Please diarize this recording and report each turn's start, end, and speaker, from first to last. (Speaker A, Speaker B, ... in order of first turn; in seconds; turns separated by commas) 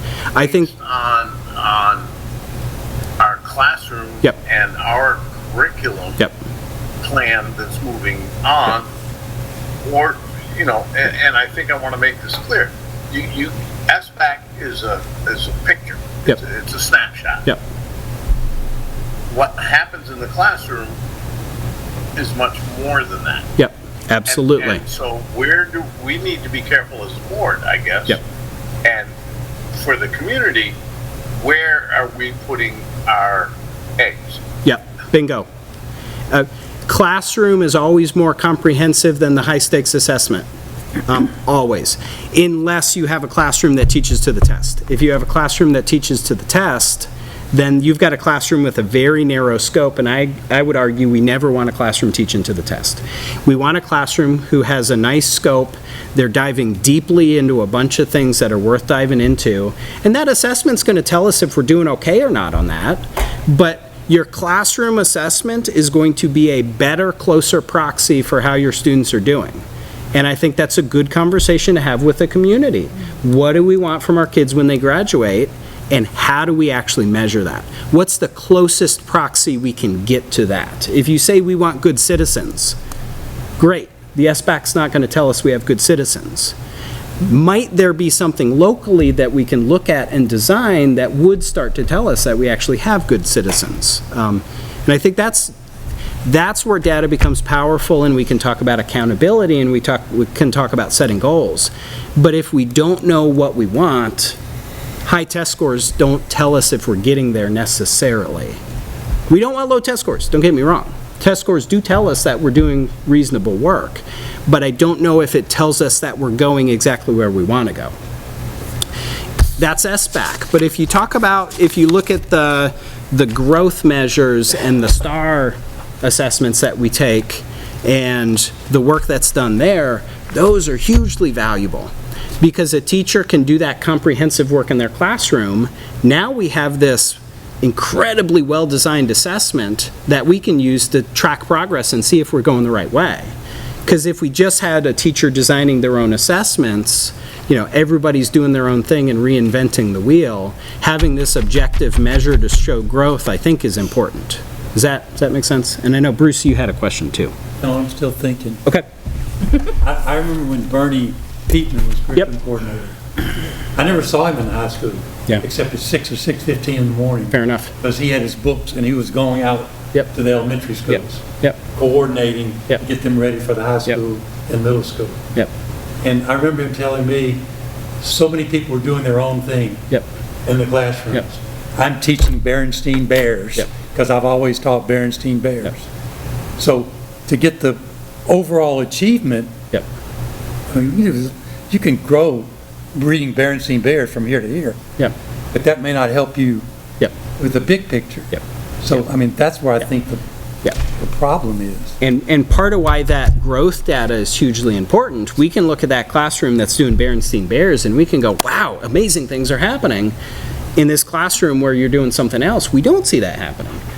Speaker A: 0.3-0.7, Speaker B: 0.3-2.1, Speaker B: 3.2-6.3, Speaker B: 7.0-8.9, Speaker B: 9.8-17.5, Speaker B: 19.3-20.9, Speaker B: 22.2-23.5, Speaker A: 23.6-24.8, Speaker B: 24.3-28.2, Speaker B: 28.8-29.1, Speaker B: 29.7-30.7, Speaker B: 31.4-34.4, Speaker A: 34.6-35.5, Speaker A: 36.3-40.5, Speaker A: 41.0-82.8, Speaker A: 83.6-86.5, Speaker A: 87.2-95.5, Speaker A: 96.2-104.4, Speaker A: 105.0-108.6, Speaker A: 109.3-117.9, Speaker A: 119.6-143.3, Speaker A: 143.8-157.3, Speaker C: 157.6-158.6, Speaker C: 159.8-162.9, Speaker C: 163.7-175.2, Speaker A: 167.3-167.7, Speaker A: 170.9-171.6, Speaker C: 176.0-177.4, Speaker C: 178.0-179.8, Speaker C: 180.4-185.8, Speaker C: 186.6-189.5, Speaker C: 190.7-194.8, Speaker C: 195.5-196.7, Speaker C: 197.4-200.2, Speaker C: 200.9-201.9, Speaker A: 202.0-210.1, Speaker A: 210.8-213.8